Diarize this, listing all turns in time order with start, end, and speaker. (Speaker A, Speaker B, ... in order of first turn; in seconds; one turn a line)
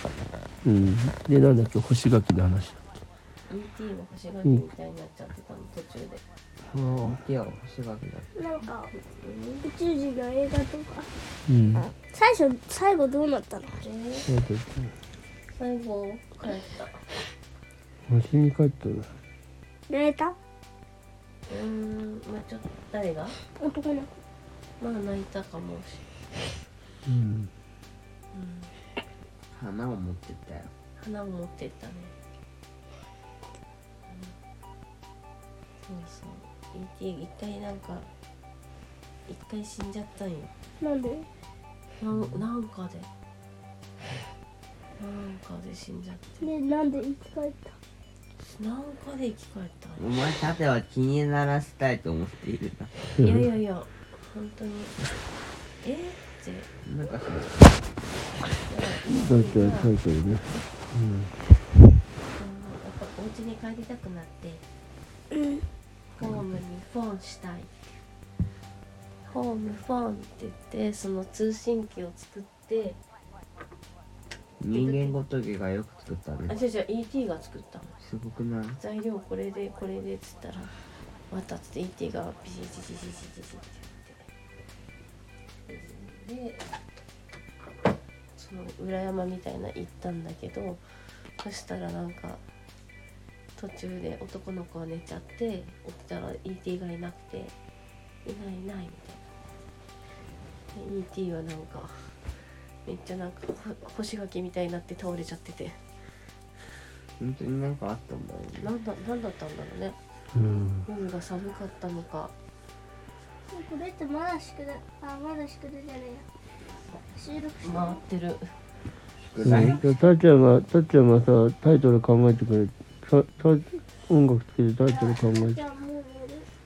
Speaker A: 0.6-2.8
Speaker B: 3.5-6.2
Speaker A: 6.7-7.2
Speaker C: 7.0-8.3
Speaker D: 8.3-8.9
Speaker B: 8.9-9.7
Speaker D: 9.6-11.1
Speaker A: 11.5-11.9
Speaker D: 11.8-13.8
Speaker B: 13.8-14.3
Speaker A: 14.2-14.9
Speaker B: 15.5-17.1
Speaker A: 18.1-19.1
Speaker D: 19.9-20.4
Speaker B: 21.5-23.4
Speaker D: 23.4-24.1
Speaker B: 24.8-26.1
Speaker A: 27.1-27.5
Speaker B: 28.3-28.7
Speaker C: 29.5-30.7
Speaker B: 31.0-32.1
Speaker B: 34.1-34.3
Speaker B: 35.9-38.1
Speaker B: 39.3-40.5
Speaker D: 40.8-41.3
Speaker B: 42.0-43.1
Speaker B: 45.0-46.5
Speaker D: 46.4-47.8
Speaker B: 48.4-50.0
Speaker C: 50.0-52.9
Speaker B: 53.2-55.0
Speaker B: 55.8-56.7
Speaker C: 56.8-57.7
Speaker B: 58.6-60.0
Speaker A: 59.0-61.3
Speaker B: 62.3-64.6
Speaker B: 66.1-67.7
Speaker B: 69.2-73.0
Speaker C: 74.6-76.5
Speaker B: 74.7-75.2
Speaker B: 76.5-77.9
Speaker C: 78.0-78.8
Speaker B: 78.8-80.8
Speaker B: 81.3-84.2
Speaker B: 85.7-86.7
Speaker B: 88.3-90.8
Speaker B: 91.4-92.4
Speaker B: 93.5-97.5
Speaker B: 98.2-99.2
Speaker B: 100.7-102.3
Speaker B: 102.8-105.8
Speaker C: 107.2-108.7
Speaker B: 108.6-110.0
Speaker A: 110.3-110.8
Speaker B: 110.8-112.3
Speaker D: 113.5-116.2
Speaker D: 117.1-118.0
Speaker B: 117.6-118.5
Speaker C: 119.3-119.8
Speaker A: 119.4-125.6
Speaker D: 124.9-126.5